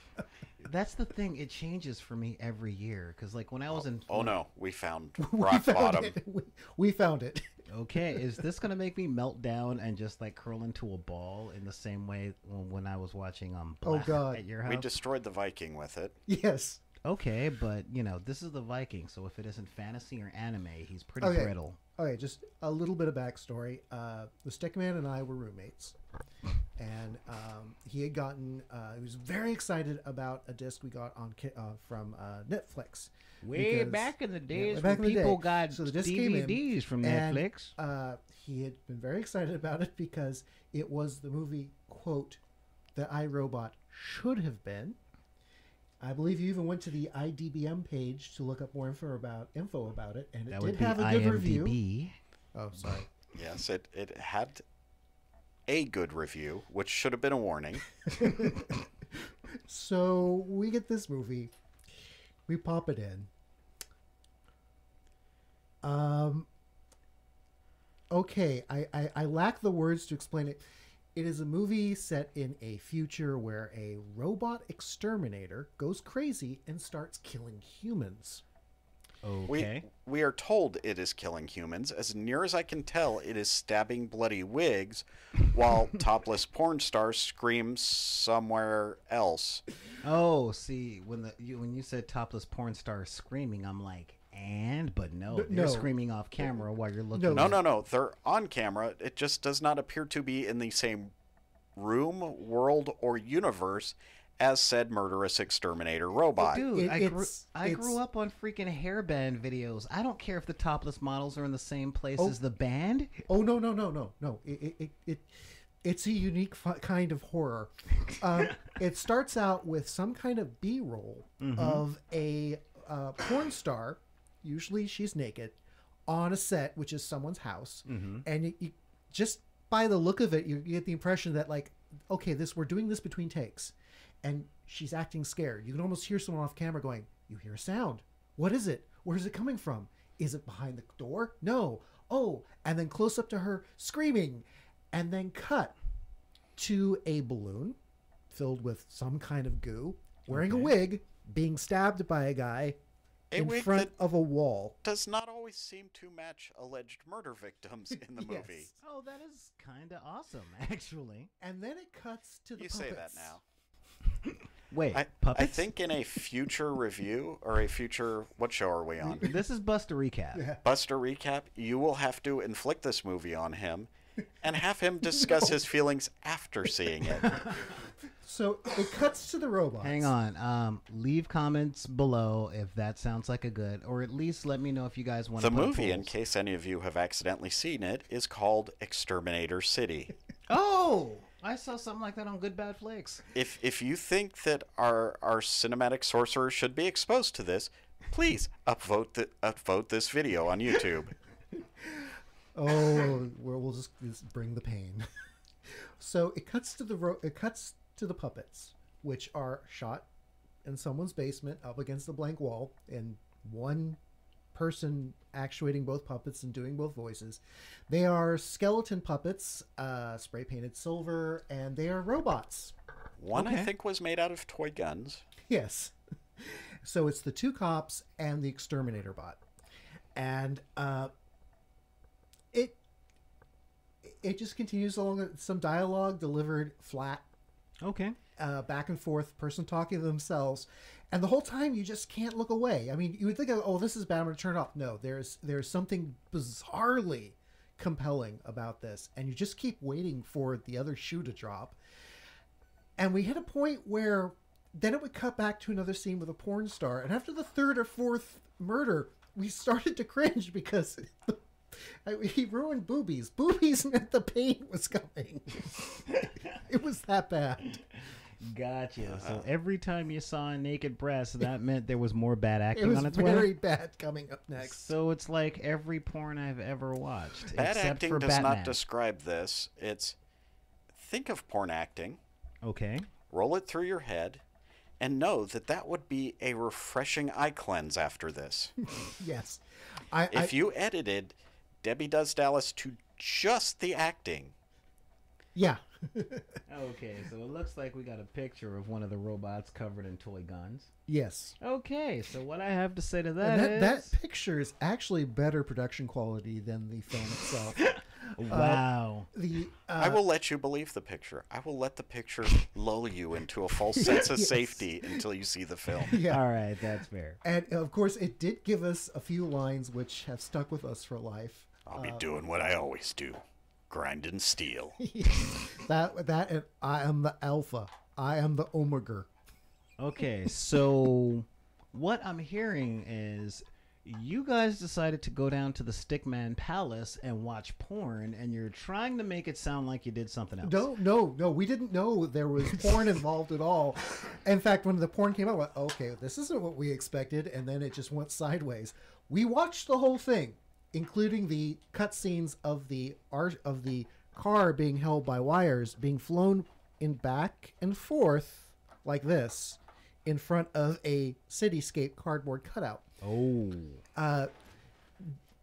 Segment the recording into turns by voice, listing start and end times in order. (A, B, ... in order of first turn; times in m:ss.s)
0:00.6-0:04.3 A
0:03.7-0:06.2 B
0:05.2-0:07.5 C
0:07.7-0:14.9 A
0:13.8-0:14.4 C
0:14.6-0:16.2 B
0:16.3-0:16.8 C
0:17.0-0:21.8 A
0:21.2-0:26.0 C
0:26.8-0:42.4 C
0:33.4-0:37.7 A
0:42.9-0:45.0 C
0:46.0-0:51.8 C
0:50.5-0:52.2 A
0:52.5-0:53.1 C
0:53.3-0:54.6 B
0:55.7-0:58.0 B
0:58.1-1:01.5 C
1:02.5-1:03.3 C
1:05.8-1:06.5 C
1:08.1-1:10.6 C
1:11.1-1:18.4 C
1:19.2-1:19.8 A
1:19.5-1:29.6 B
1:30.0-1:37.6 A
1:35.3-1:35.9 C
1:37.1-1:37.6 C
1:37.3-1:41.1 B
1:41.8-1:46.6 B
1:46.4-1:53.2 A
1:46.6-1:48.0 C
1:53.3-2:25.7 C
2:01.4-2:01.8 A
2:07.8-2:08.2 A
2:26.6-2:27.8 C
2:28.3-2:32.8 C
2:30.3-2:30.7 A
2:33.3-2:33.9 B
2:33.3-2:34.8 C
2:34.8-2:38.7 B
2:38.2-2:38.7 C
2:38.8-2:41.3 A
2:41.4-2:43.4 C
2:42.6-2:43.4 B
2:44.2-2:45.7 A
2:44.9-2:49.3 B
2:49.2-2:50.4 A
2:50.3-2:50.6 C
2:50.6-2:53.9 B
2:54.4-2:57.6 B
2:57.1-3:00.1 C
2:59.8-3:06.1 A
3:05.4-3:10.1 B
3:10.5-3:13.2 A
3:13.3-3:21.1 B
3:21.5-3:25.0 C
3:25.7-3:30.1 C
3:30.6-3:34.0 C
3:34.5-3:42.8 C
3:43.2-3:45.2 B
3:43.3-3:43.7 A
3:45.4-3:49.4 C
3:50.1-3:51.1 C
3:52.5-3:52.8 C
3:54.0-3:57.3 C
3:57.8-3:58.2 A
3:58.4-4:11.8 C
4:13.0-4:25.7 C
4:25.7-4:26.6 A
4:26.6-4:27.7 C
4:27.6-4:33.5 A
4:29.0-4:29.4 B
4:32.7-4:34.8 C
4:34.6-4:38.8 A
4:37.5-4:40.2 B
4:40.9-4:42.2 B
4:42.6-4:43.1 A
4:43.3-4:44.4 B
4:45.0-4:48.7 B
4:49.0-4:50.5 C
4:50.3-4:54.5 B
4:55.5-4:56.6 C
4:56.7-5:00.9 A
5:01.1-5:01.6 C
5:01.6-5:04.1 A
5:03.4-5:10.2 C
5:07.7-5:09.3 A
5:10.0-5:16.2 B
5:14.0-5:15.2 C
5:16.0-5:16.4 C
5:16.2-5:17.4 A
5:17.4-5:22.2 C
5:21.9-5:25.0 B
5:25.0-5:29.3 C
5:30.0-5:40.8 A
5:40.6-6:03.1 C
6:03.2-6:04.0 A
6:04.1-6:04.5 C